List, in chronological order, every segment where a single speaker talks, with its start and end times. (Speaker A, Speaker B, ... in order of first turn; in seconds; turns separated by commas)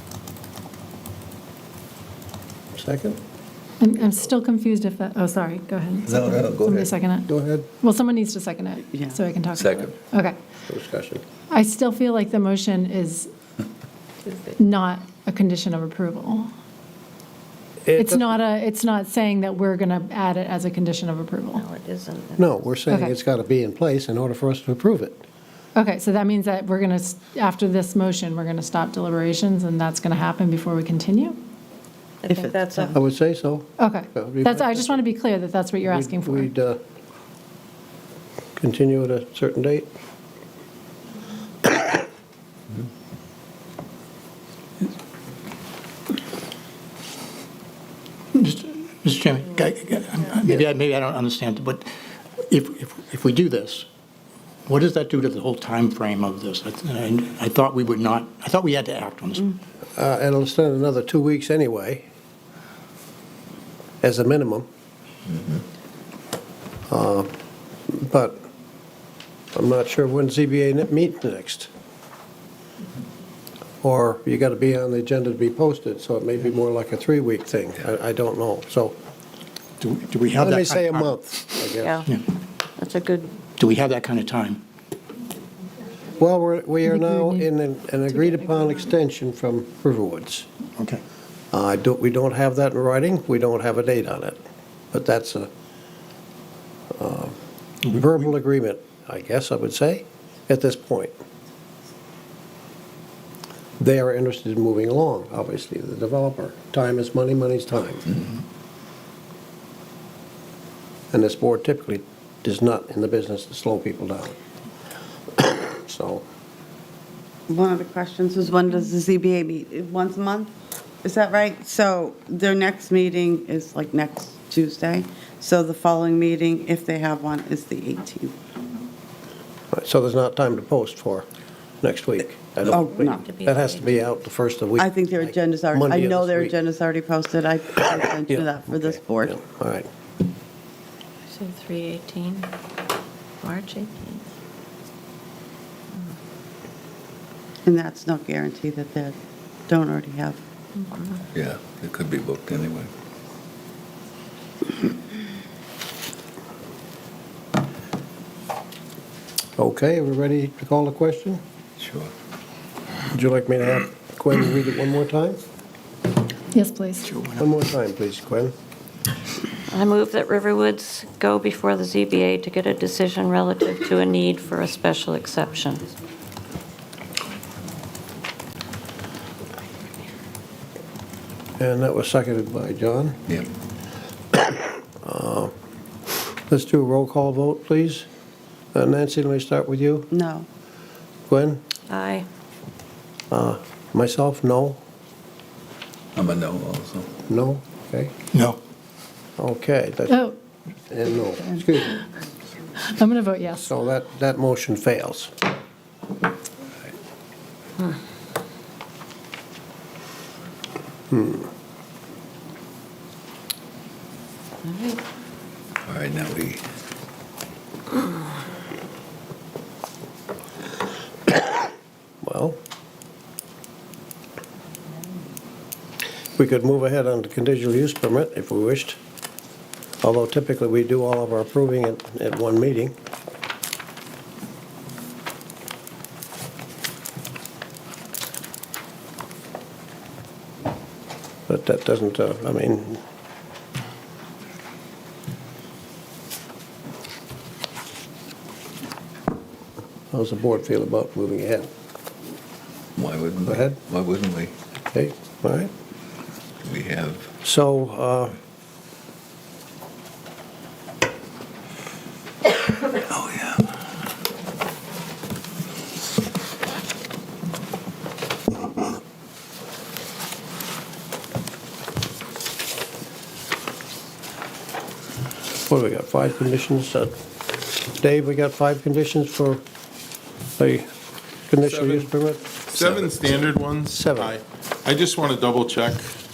Speaker A: 2.7-3.2, Speaker B: 3.8-10.4, Speaker C: 6.1-7.0, Speaker A: 7.3-7.7, Speaker D: 8.9-9.2, Speaker C: 9.5-9.9, Speaker A: 10.7-11.2, Speaker B: 11.5-13.3, Speaker B: 14.6-16.5, Speaker A: 17.8-18.3, Speaker B: 17.9-21.6, Speaker E: 21.5-22.7, Speaker A: 22.4-25.2, Speaker B: 22.9-23.1, Speaker B: 25.7-31.4, Speaker E: 32.2-33.0, Speaker D: 32.3-32.9, Speaker A: 32.9-35.0, Speaker B: 33.8-36.5, Speaker A: 35.9-36.8, Speaker A: 38.6-39.9, Speaker F: 48.3-51.9, Speaker F: 52.4-53.9, Speaker F: 54.7-59.5, Speaker A: 60.0-62.0, Speaker A: 64.0-64.7, Speaker A: 66.9-67.3, Speaker A: 67.9-68.5, Speaker A: 69.5-71.7, Speaker A: 73.8-79.0, Speaker F: 79.8-81.2, Speaker A: 80.4-82.0, Speaker E: 81.8-82.1, Speaker E: 82.8-83.3, Speaker F: 83.6-84.6, Speaker A: 86.1-90.5, Speaker B: 86.8-87.5, Speaker B: 88.1-88.7, Speaker A: 91.5-94.4, Speaker A: 94.9-95.5, Speaker A: 96.9-97.3, Speaker A: 97.9-101.2, Speaker A: 103.8-108.2, Speaker A: 111.1-114.3, Speaker A: 115.4-116.2, Speaker D: 117.5-120.5, Speaker D: 121.0-128.3, Speaker A: 129.7-131.2, Speaker A: 131.8-136.5, Speaker D: 132.7-133.2, Speaker E: 132.8-134.2, Speaker D: 134.8-139.3, Speaker A: 138.3-139.9, Speaker E: 141.3-142.5, Speaker E: 143.4-144.2, Speaker D: 147.7-149.2, Speaker D: 149.7-150.4, Speaker E: 150.8-151.2, Speaker C: 151.3-152.9, Speaker A: 159.6-161.4, Speaker C: 161.8-162.1, Speaker A: 163.1-165.4, Speaker B: 166.5-167.1, Speaker F: 167.1-167.4, Speaker A: 167.4-168.5, Speaker E: 169.7-175.9, Speaker A: 181.6-183.3, Speaker A: 184.3-185.5, Speaker A: 186.5-188.1, Speaker A: 188.7-190.1, Speaker D: 190.1-190.5, Speaker A: 191.3-191.6, Speaker E: 191.9-192.2, Speaker A: 193.3-194.8, Speaker C: 196.1-197.1, Speaker A: 197.3-198.1, Speaker F: 198.3-198.6, Speaker A: 199.4-200.3, Speaker B: 200.1-200.3, Speaker A: 200.9-202.0, Speaker B: 202.8-203.7, Speaker A: 203.5-205.3, Speaker A: 211.1-211.5, Speaker E: 214.6-215.0, Speaker C: 215.8-216.6, Speaker A: 222.2-222.6, Speaker A: 226.4-229.0, Speaker A: 230.0-232.9, Speaker A: 241.5-243.0, Speaker A: 250.1-251.7, Speaker C: 253.0-254.5, Speaker A: 253.4-253.8, Speaker A: 254.9-255.7, Speaker C: 256.6-257.3, Speaker A: 257.4-258.3, Speaker C: 262.9-263.7, Speaker A: 275.7-277.1, Speaker A: 277.9-279.6, Speaker A: 280.6-280.9, Speaker A: 281.5-284.3, Speaker G: 281.7-282.1, Speaker G: 282.6-286.1